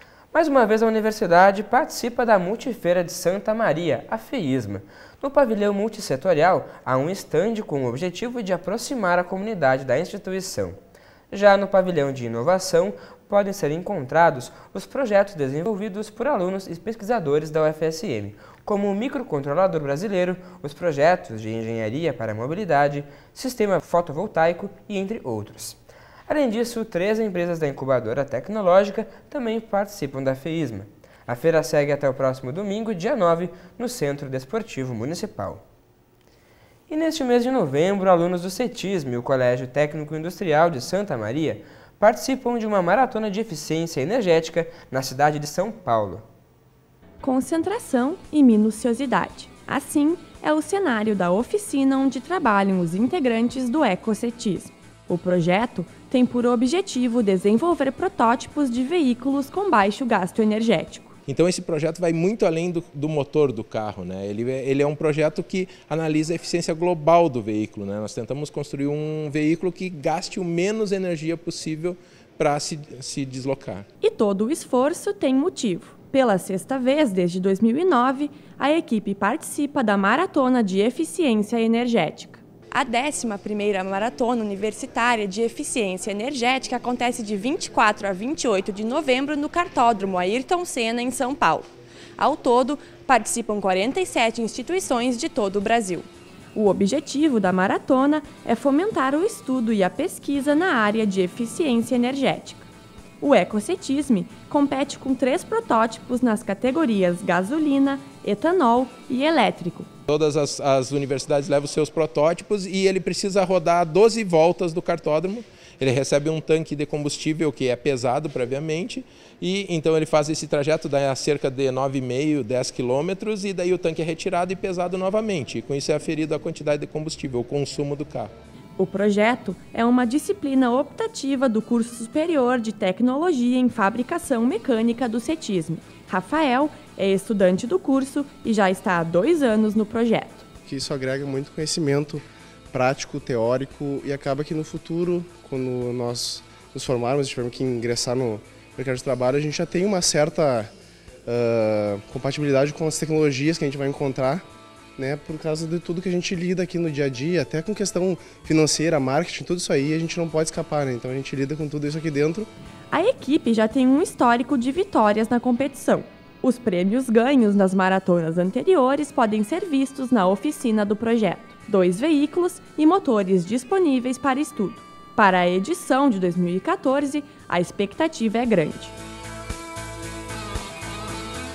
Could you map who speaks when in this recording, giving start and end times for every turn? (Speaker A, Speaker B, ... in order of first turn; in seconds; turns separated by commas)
Speaker A: 0.3-10.8, Speaker A: 11.3-35.6, Speaker A: 36.9-46.2, Speaker B: 47.2-61.1, Speaker C: 61.3-73.8, Speaker B: 74.0-102.7, Speaker B: 103.2-109.9, Speaker C: 110.1-128.3, Speaker B: 128.8-140.4, Speaker D: 140.7-150.7, Speaker D: 151.3-154.4, Speaker D: 155.0-162.5, Speaker B: 162.9-178.9